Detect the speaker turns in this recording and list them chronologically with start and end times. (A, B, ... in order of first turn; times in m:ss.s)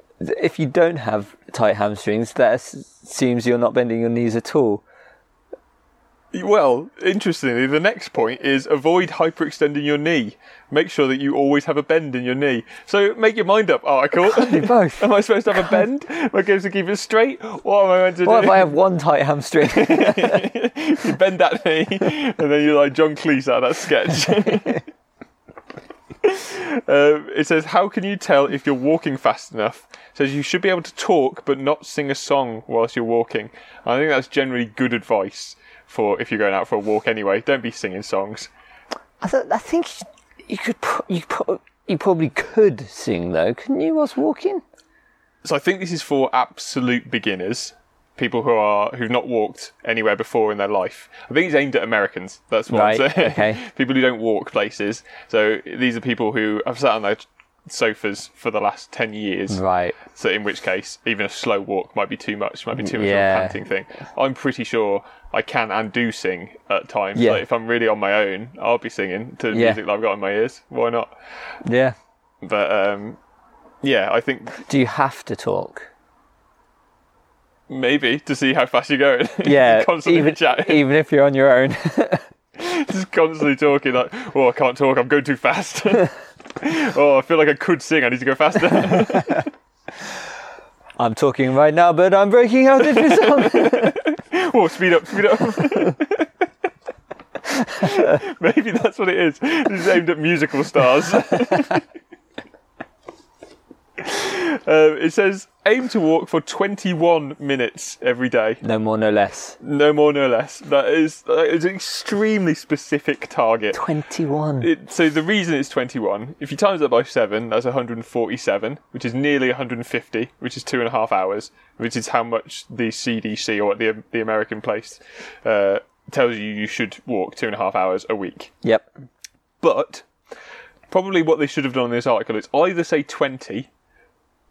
0:00.2-0:04.8 A
0:06.3-0:18.8 B
0:14.2-0:15.8 A
0:18.2-0:20.5 A
0:19.6-0:24.8 B
0:26.2-0:38.5 B
0:39.2-0:44.6 A
0:45.4-1:11.1 B
0:52.7-0:53.6 A
0:59.5-1:00.0 A
1:02.8-1:03.6 A
1:07.1-1:07.4 A
1:09.5-1:09.8 A
1:11.6-1:12.0 A
1:12.4-1:13.2 B
1:13.8-1:14.6 B
1:14.6-1:15.9 A
1:17.7-1:20.9 B
1:19.4-1:22.2 A
1:22.6-1:29.5 B
1:31.0-1:34.0 A
1:32.9-1:36.3 B
1:37.8-1:41.8 B
1:44.0-1:48.6 B
1:48.6-1:49.6 A
1:49.6-1:53.8 B
1:53.7-1:54.7 A
1:54.6-2:08.5 B
2:09.6-2:10.0 B
2:10.9-2:13.7 B